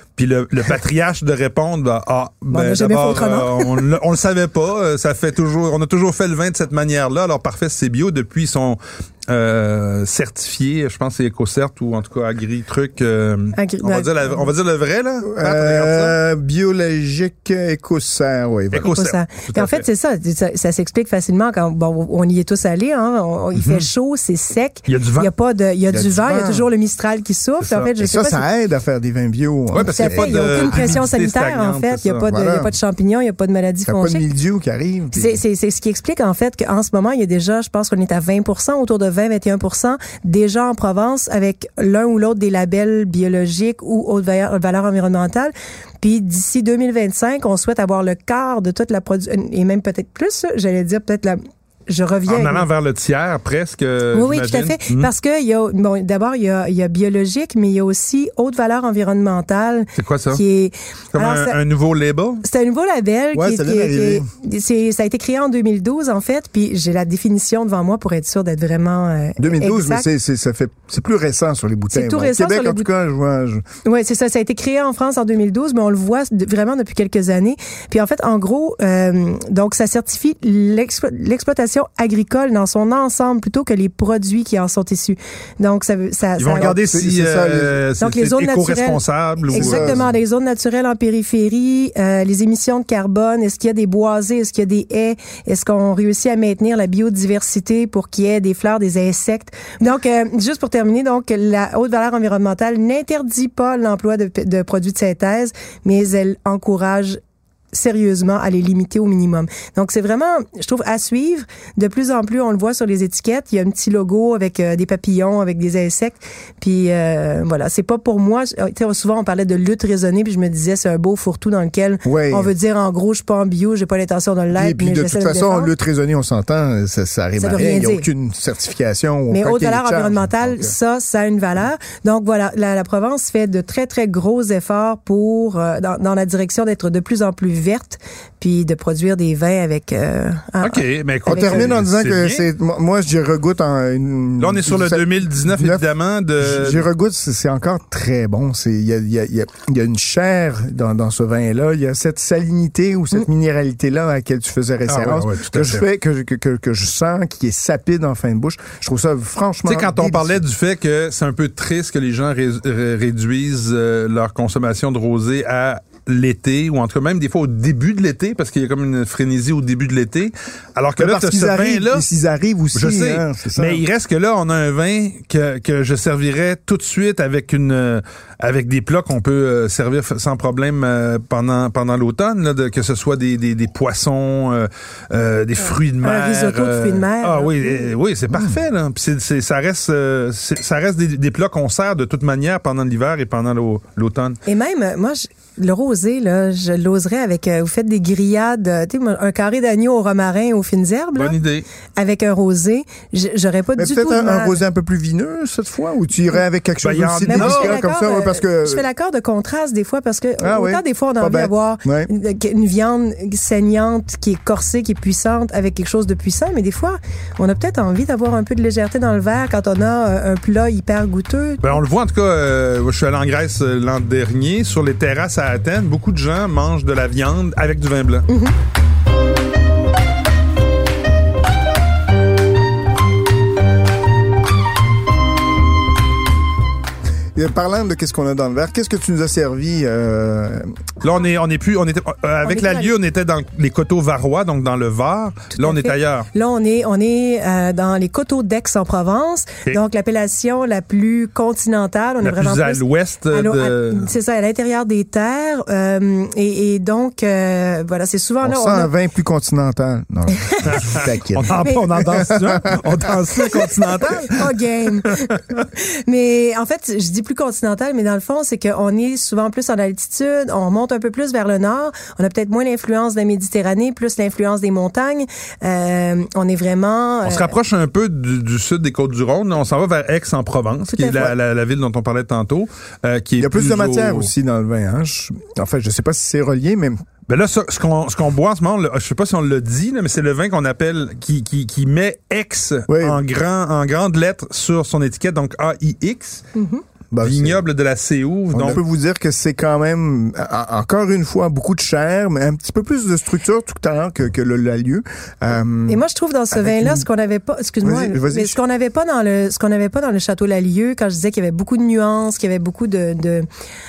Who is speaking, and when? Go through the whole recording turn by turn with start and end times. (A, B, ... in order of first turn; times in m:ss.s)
0:00.2-0:16.2 A
0:02.5-0:03.9 B
0:13.5-0:14.5 B
0:15.2-0:18.9 C
0:18.7-0:19.8 A
0:18.8-0:28.4 B
0:23.6-0:23.9 A
0:24.9-0:25.3 A
0:25.9-0:26.7 C
0:27.6-0:27.9 A
0:28.0-0:31.0 C
0:29.7-0:32.2 A
0:29.8-0:34.2 B
0:32.2-0:32.7 C
0:33.9-0:35.4 C
0:35.1-0:52.7 B
0:52.3-0:55.1 A
0:54.1-1:01.6 B
1:00.0-1:00.4 A
1:01.1-1:02.4 A
1:02.4-1:10.1 B
1:03.3-1:04.3 C
1:09.4-1:13.6 C
1:11.9-1:12.9 B
1:13.8-1:26.8 B
1:26.4-1:30.0 A
1:26.5-1:27.8 C
1:28.0-1:47.2 B
1:29.5-1:30.1 C
1:47.7-2:05.7 B
2:02.0-2:02.5 C
2:04.5-2:10.7 C
2:07.4-2:08.1 B
2:09.3-2:21.7 B
2:20.6-2:22.4 A
2:21.2-2:25.8 C
2:24.4-2:26.9 A
2:26.4-2:40.4 C
2:34.9-2:35.8 A
2:39.7-2:52.0 A
2:51.0-2:53.8 C
2:52.7-3:14.4 A
3:05.6-3:07.9 B
3:08.3-3:08.6 C
3:14.4-3:21.4 B
3:21.1-3:21.7 A
3:22.0-3:24.6 B
3:23.8-3:28.8 C
3:26.8-3:27.8 A
3:27.3-3:41.6 B
3:30.4-3:32.1 C
3:41.6-3:48.2 A
3:48.3-3:48.5 B
3:57.4-4:00.7 C
4:01.0-4:06.3 A
4:02.4-4:02.9 B
4:05.5-4:18.9 B
4:12.2-4:14.1 A
4:18.4-4:22.8 C
4:20.5-4:20.8 B
4:20.7-4:25.6 A
4:23.4-4:37.5 B
4:37.2-4:44.3 A
4:40.9-4:41.3 B
4:43.4-4:47.0 C
4:47.3-4:56.4 A
4:52.9-4:53.2 C
4:56.5-4:56.8 B
4:57.1-4:57.6 C
4:57.2-4:58.8 A
4:58.5-5:07.0 C
5:05.9-5:13.5 B
5:07.8-5:08.6 C